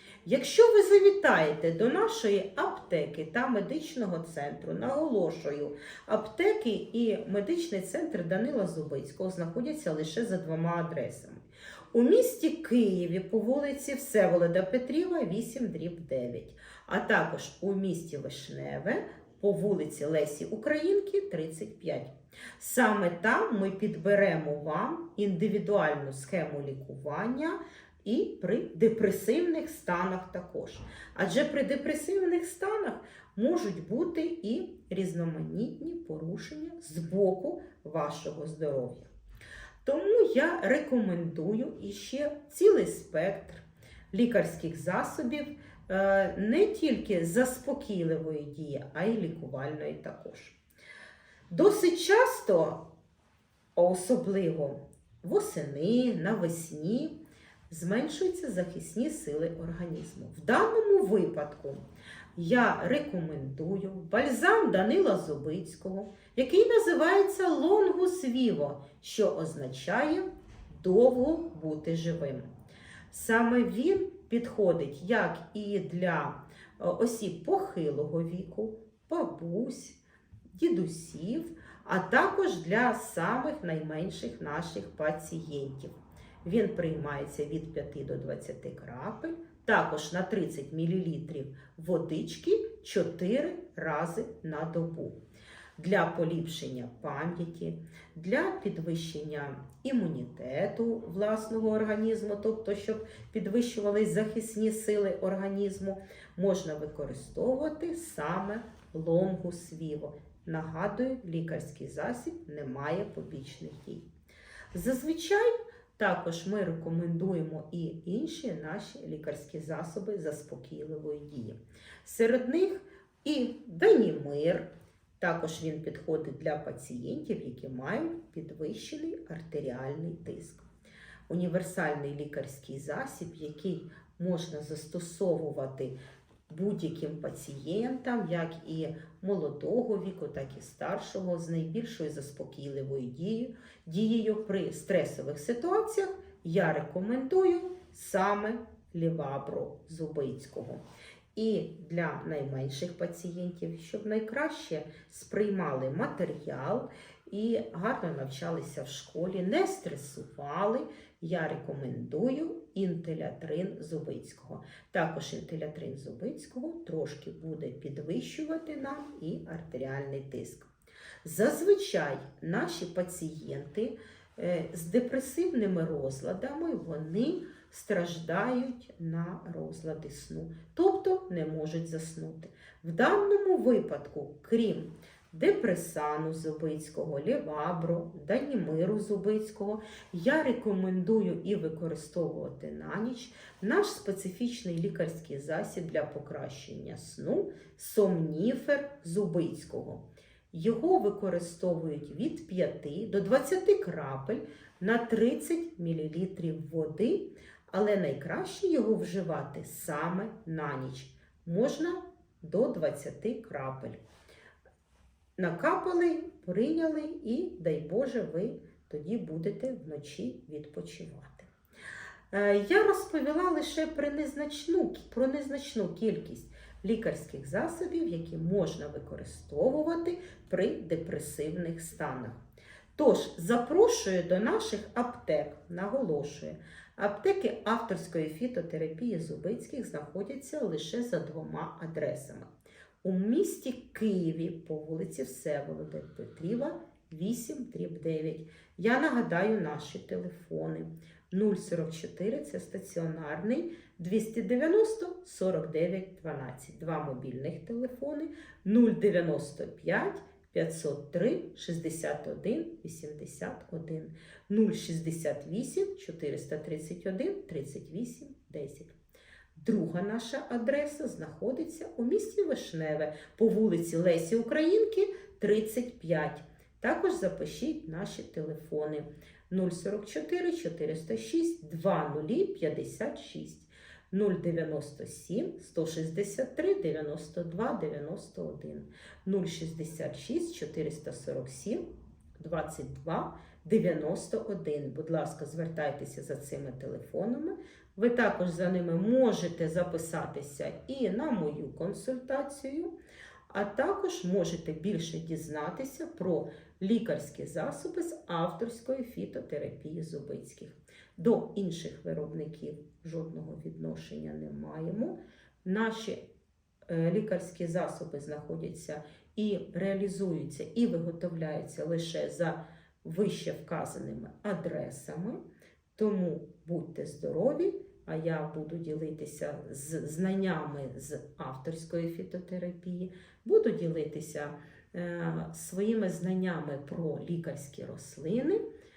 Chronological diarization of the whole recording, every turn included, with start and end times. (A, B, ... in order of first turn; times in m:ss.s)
0:00.2-0:39.1 A
0:39.8-0:50.6 A
0:51.5-0:52.8 A
0:53.8-0:57.2 A
0:57.7-1:01.8 A
1:02.4-1:12.4 A
1:13.1-1:20.0 A
1:20.5-1:35.2 A
1:35.8-1:54.1 A
1:54.7-2:04.7 A
2:05.2-2:10.7 A
2:11.3-2:16.0 A
2:16.5-2:30.8 A
2:31.3-2:50.7 A
2:51.2-3:34.0 A
3:35.4-3:41.5 A
3:42.3-3:52.4 A
3:52.9-4:02.5 A
4:03.0-4:28.9 A
4:29.6-4:51.8 A
4:52.4-5:02.9 A
5:03.5-5:16.2 A
5:16.9-5:25.4 A
5:26.0-5:38.6 A